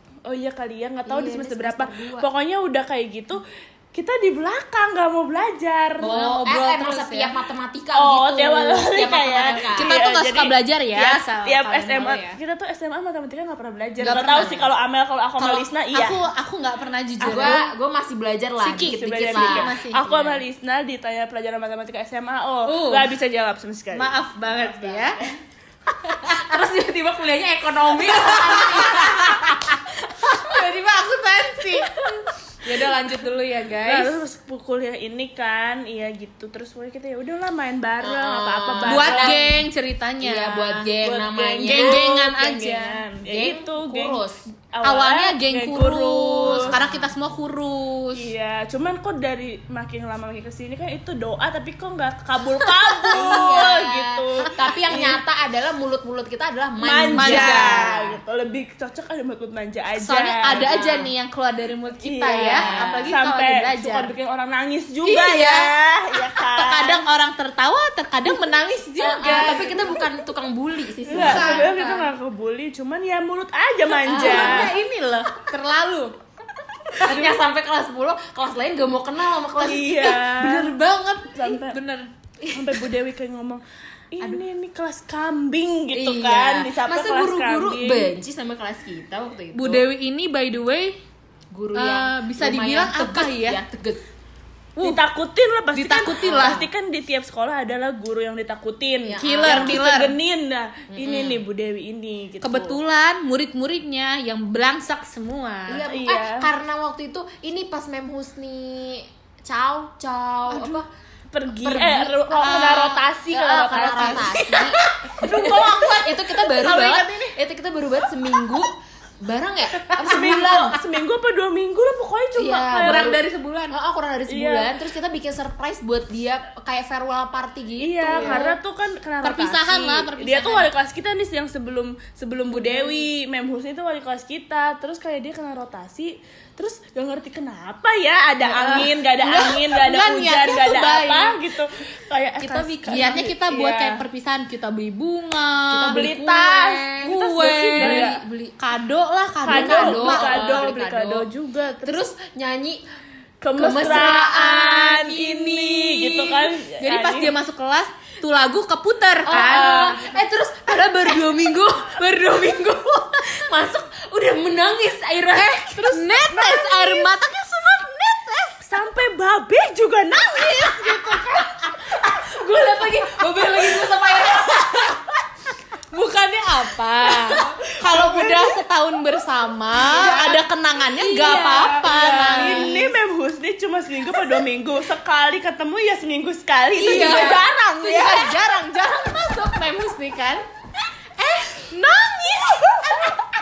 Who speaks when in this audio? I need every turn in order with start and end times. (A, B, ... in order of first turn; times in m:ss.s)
0:00.2-0:06.1 A
0:01.1-0:02.3 B
0:06.0-0:09.9 B
0:06.0-0:07.3 C
0:07.9-0:16.2 A
0:09.5-0:12.4 C
0:14.0-0:14.6 C
0:14.3-0:14.7 B
0:15.4-0:17.6 C
0:17.2-0:20.3 B
0:17.2-0:17.6 A
0:18.6-0:20.4 C
0:18.8-0:24.1 A
0:22.6-0:23.1 C
0:23.9-0:25.2 C
0:24.7-0:25.2 B
0:26.2-0:30.6 B
0:26.2-0:26.5 C
0:27.9-0:29.6 C
0:30.3-0:32.1 C
0:31.6-0:32.2 B
0:32.6-0:34.2 C
0:33.8-0:39.5 A
0:38.0-0:39.6 B
0:38.8-0:40.9 C
0:40.2-0:42.2 B
0:41.0-0:46.8 A
0:41.6-0:43.0 C
0:43.2-0:44.4 B
0:44.8-0:48.2 C
0:46.4-0:47.1 B
0:48.2-0:55.2 A
0:53.0-0:58.2 B
0:53.1-0:53.6 C
0:56.8-1:00.7 A
0:57.1-0:57.8 C
1:00.0-1:04.1 C
1:00.5-1:01.1 B
1:02.0-1:07.0 A
1:02.3-1:03.1 B
1:05.0-1:05.7 C
1:06.5-1:10.0 C
1:09.0-1:12.0 B
1:11.1-1:14.7 A
1:11.1-1:12.1 C
1:14.0-1:14.8 B
1:14.1-1:16.1 C
1:17.0-1:20.2 B
1:17.0-1:17.3 A
1:19.6-1:20.7 A
1:19.7-1:22.1 C
1:21.3-1:21.8 A
1:22.5-1:28.1 A
1:25.9-1:29.8 B
1:29.5-1:31.0 C
1:31.5-1:34.0 B
1:31.7-1:33.6 C
1:34.8-1:42.8 A
1:35.7-1:36.7 C
1:36.2-1:36.6 B
1:39.0-1:39.8 B
1:39.2-1:40.1 C
1:40.9-1:41.4 B
1:42.4-1:45.8 C
1:45.7-1:50.8 B
1:45.8-1:46.5 A
1:50.5-1:56.3 A
1:51.6-1:52.7 B
1:52.3-1:53.0 C
1:53.3-2:00.8 B
1:56.4-1:57.3 C
1:59.9-2:03.2 A
2:02.4-2:08.5 B
2:02.8-2:03.7 C
2:04.3-2:04.7 A
2:07.8-2:24.0 A
2:08.1-2:08.5 C
2:09.2-2:10.7 C
2:12.6-2:13.0 C
2:18.4-2:21.4 C
2:22.4-2:23.3 B
2:22.8-2:26.1 C
2:25.7-2:28.6 B
2:25.9-2:28.2 A
2:27.0-2:31.2 C
2:29.4-2:32.1 A
2:29.4-2:31.0 B
2:31.8-2:32.8 B
2:33.4-2:37.3 A
2:33.6-2:36.5 B
2:36.8-2:40.1 C
2:39.2-2:48.6 B
2:39.3-2:40.0 A
2:45.7-2:47.2 C
2:46.5-2:46.8 A
2:48.6-2:51.5 A
2:50.4-2:55.1 B
2:55.9-3:02.9 C
2:57.2-2:57.6 B
2:57.8-2:58.5 A
2:59.9-3:00.4 A
2:59.9-3:00.4 B
3:00.9-3:03.0 B
3:01.1-3:08.3 A
3:06.8-3:07.6 B
3:06.8-3:10.4 C
3:11.2-3:13.2 C
3:11.7-3:12.4 B